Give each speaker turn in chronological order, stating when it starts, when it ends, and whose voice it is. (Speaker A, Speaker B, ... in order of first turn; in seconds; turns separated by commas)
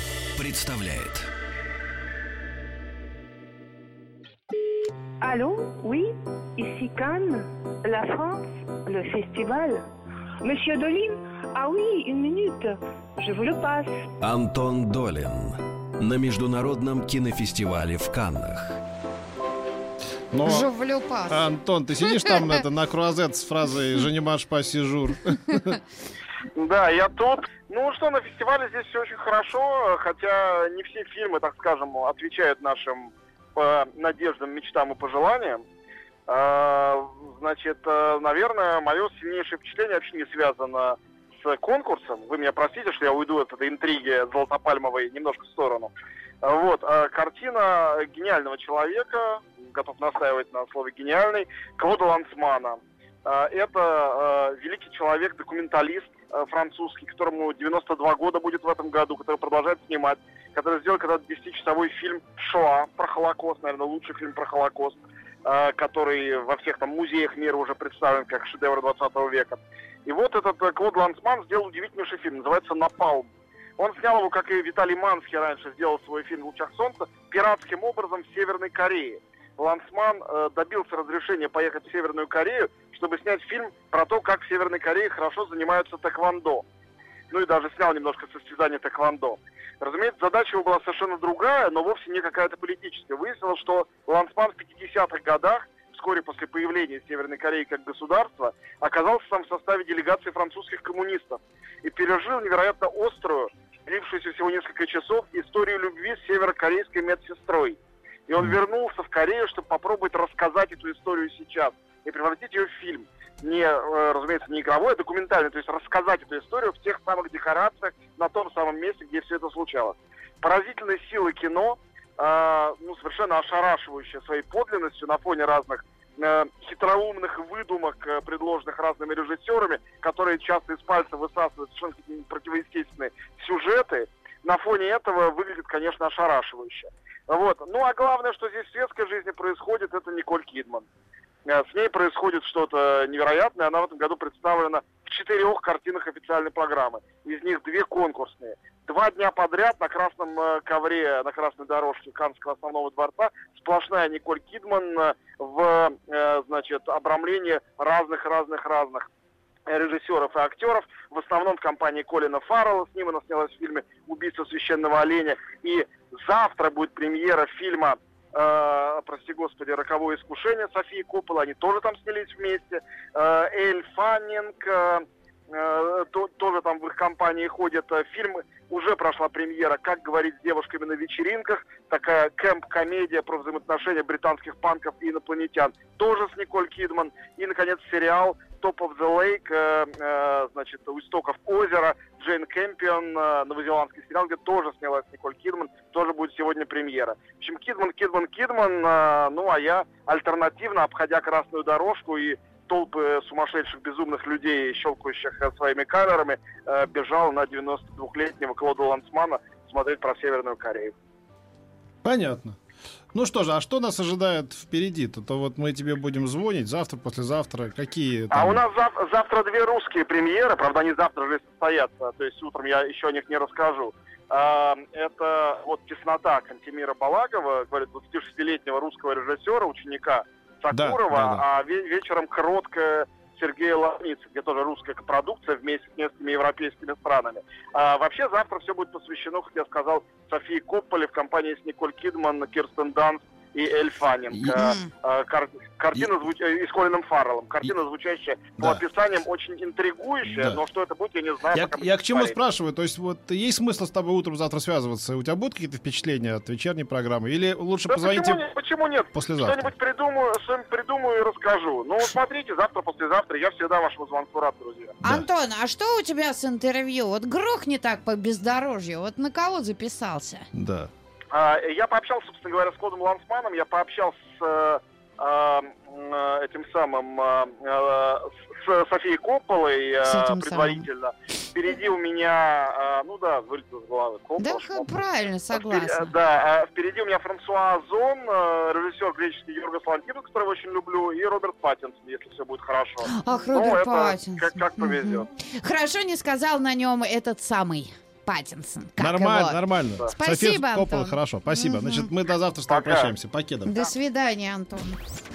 Speaker A: 0.4-1.3, Speaker B: 5.2-9.8, Speaker B: 10.4-14.0, Speaker A: 14.2-18.8, Speaker C: 20.3-20.7, Speaker D: 20.4-21.4, Speaker C: 21.3-25.8, Speaker D: 22.1-22.3, Speaker E: 26.6-35.6, Speaker E: 36.3-45.9, Speaker E: 46.4-86.7, Speaker E: 87.3-140.9, Speaker E: 141.5-159.1, Speaker E: 159.7-210.9, Speaker C: 212.0-212.6, Speaker C: 213.1-218.6, Speaker E: 218.3-252.4, Speaker C: 230.7-231.4, Speaker D: 244.6-244.9, Speaker C: 250.2-250.6, Speaker C: 251.5-258.4, Speaker E: 257.9-265.0, Speaker C: 259.1-259.7, Speaker D: 265.0-270.5, Speaker C: 270.6-270.9, Speaker E: 271.3-284.9, Speaker D: 280.0-280.9, Speaker D: 284.4-286.1, Speaker E: 285.5-295.3, Speaker D: 293.0-302.1, Speaker C: 299.0-303.8, Speaker E: 302.7-303.1, Speaker D: 303.7-305.0